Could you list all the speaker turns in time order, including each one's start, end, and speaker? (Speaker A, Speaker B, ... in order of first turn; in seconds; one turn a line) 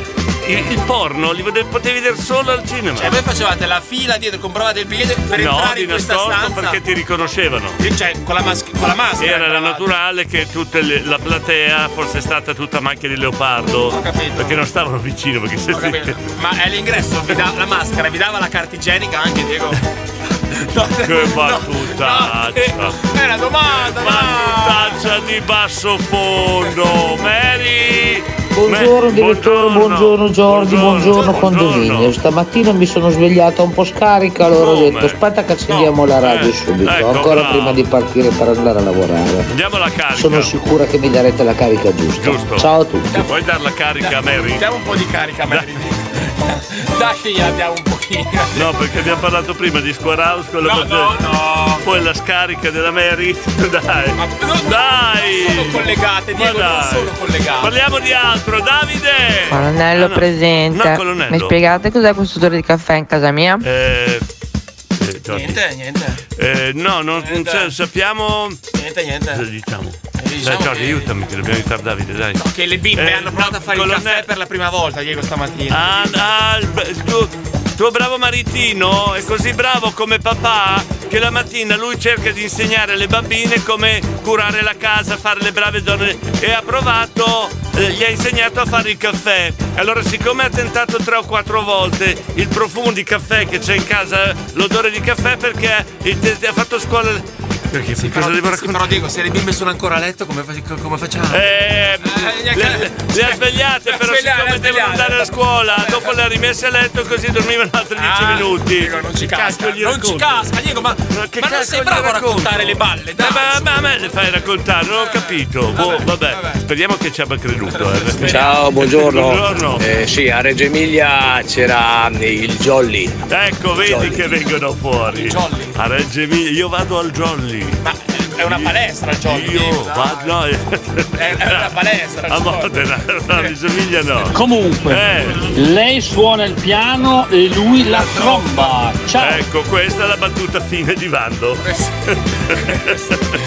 Speaker A: 0.4-3.2
Speaker B: 3.0-6.8
Speaker A: 5.3-7.8
Speaker B: 7.8-9.9
Speaker A: 9.2-16.2
Speaker B: 13.9-14.6
Speaker B: 15.7-19.8
Speaker B: 20.5-25.0
Speaker A: 21.0-23.0
Speaker A: 24.0-32.2
Speaker C: 28.6-39.5
Speaker B: 31.1-31.4
Speaker A: 34.5-35.2
Speaker B: 35.7-35.9
Speaker A: 36.2-37.8
Speaker A: 39.5-40.5
Speaker C: 40.1-43.1
Speaker A: 42.2-42.7
Speaker B: 43.1-43.4
Speaker A: 43.2-44.7
Speaker B: 44.0-48.7
Speaker A: 48.5-51.2
Speaker B: 50.6-51.9
Speaker A: 51.8-55.8
Speaker B: 54.2-57.7
Speaker A: 56.4-61.6
Speaker D: 59.5-63.6
Speaker A: 63.6-64.2
Speaker A: 65.0-65.6
Speaker B: 65.3-66.2
Speaker A: 66.4-68.6
Speaker B: 67.1-67.7
Speaker B: 68.7-69.5
Speaker A: 69.3-72.4
Speaker B: 70.2-71.1
Speaker B: 72.4-76.2
Speaker A: 73.0-74.2
Speaker A: 75.7-98.8
Speaker B: 98.0-101.5
Speaker A: 101.3-110.5
Speaker B: 102.0-106.2
Speaker B: 108.0-114.2
Speaker A: 111.1-119.8
Speaker B: 114.9-116.6
Speaker B: 117.7-118.7
Speaker E: 118.3-119.3
Speaker E: 120.2-121.4
Speaker E: 122.0-123.0
Speaker A: 123.3-127.8
Speaker B: 125.1-125.8
Speaker B: 127.8-130.4
Speaker A: 128.5-128.7
Speaker A: 129.3-131.7
Speaker B: 131.2-133.5
Speaker A: 132.3-134.3
Speaker F: 134.3-139.4
Speaker A: 134.9-135.5
Speaker B: 137.8-138.8
Speaker A: 139.2-141.6
Speaker B: 141.6-141.9
Speaker A: 142.5-142.9
Speaker B: 142.5-143.0